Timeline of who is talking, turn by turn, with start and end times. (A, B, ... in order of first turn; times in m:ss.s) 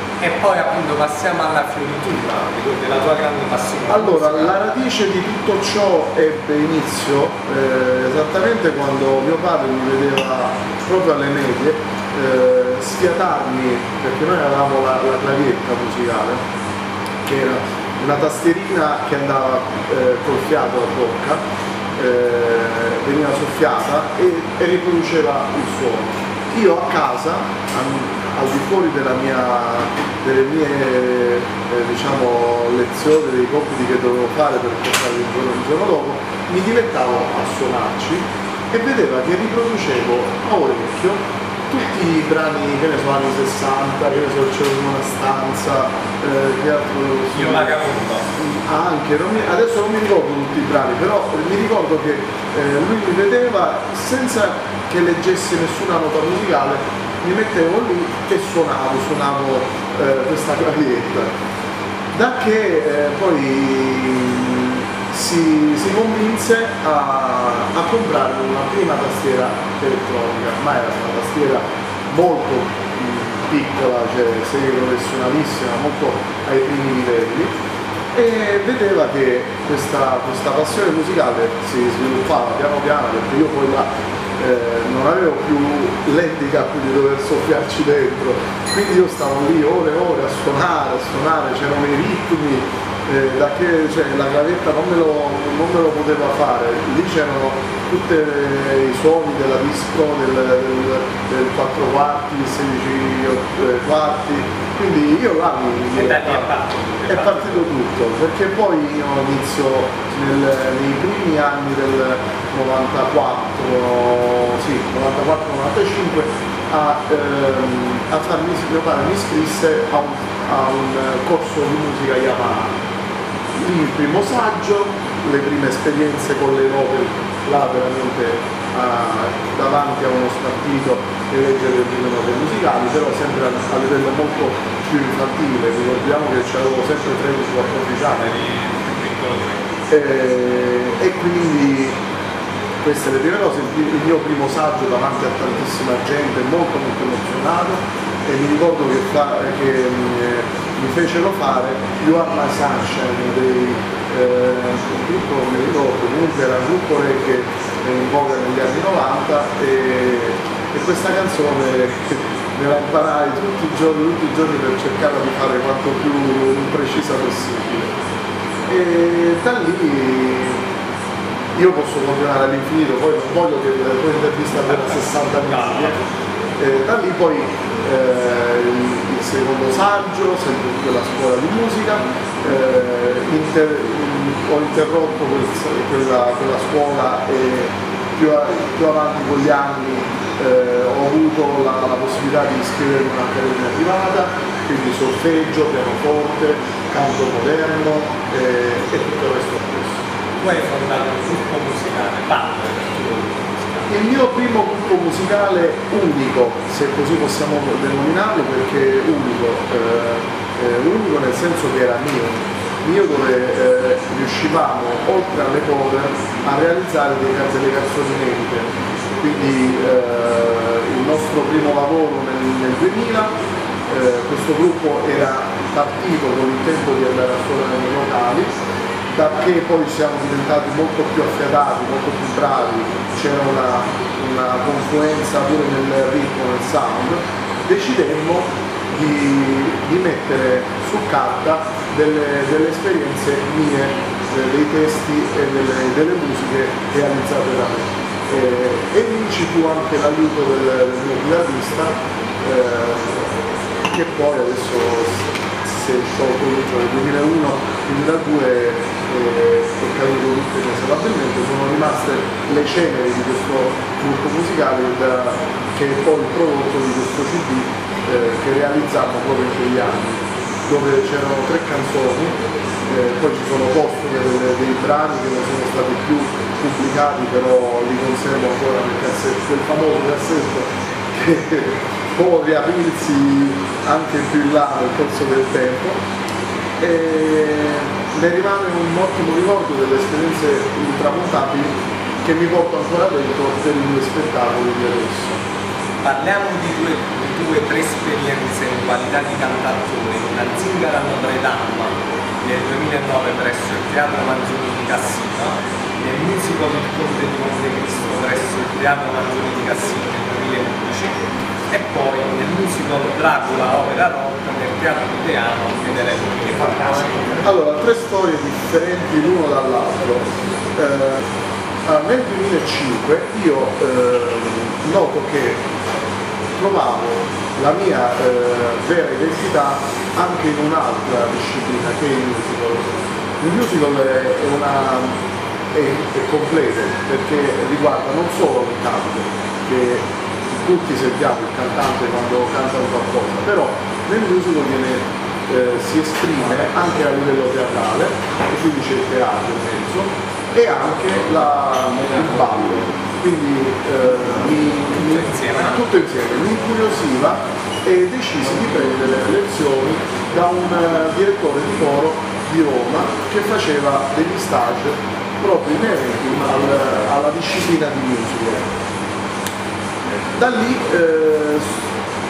0:00.2-0:04.5 A
0:03.9-0:16.4 B
0:17.2-0:21.4 B
0:21.9-0:47.8 B
0:47.3-0:48.3 A
0:48.3-1:01.3 B
1:02.1-1:17.6 B
1:18.1-1:46.5 B
1:45.9-1:47.6 A
1:47.1-2:02.7 B
2:03.6-2:18.3 B
2:18.1-2:19.6 A
2:19.9-2:22.0 B
2:22.8-2:47.9 B
2:48.7-2:50.6 B
2:51.5-2:55.9 B
2:54.7-2:56.0 A
2:56.6-3:20.0 B
3:20.4-3:23.9 A
3:23.9-3:43.3 B
3:43.9-3:48.5 B
3:49.1-4:13.3 B
4:13.9-4:46.0 B
4:46.8-4:55.4 B
4:56.0-5:11.2 A
5:11.7-5:17.4 A
5:17.4-5:21.2 B
5:21.8-5:25.6 B
5:26.6-5:35.2 B
5:35.7-6:08.6 B
5:55.0-5:55.8 A
6:10.3-6:11.7 B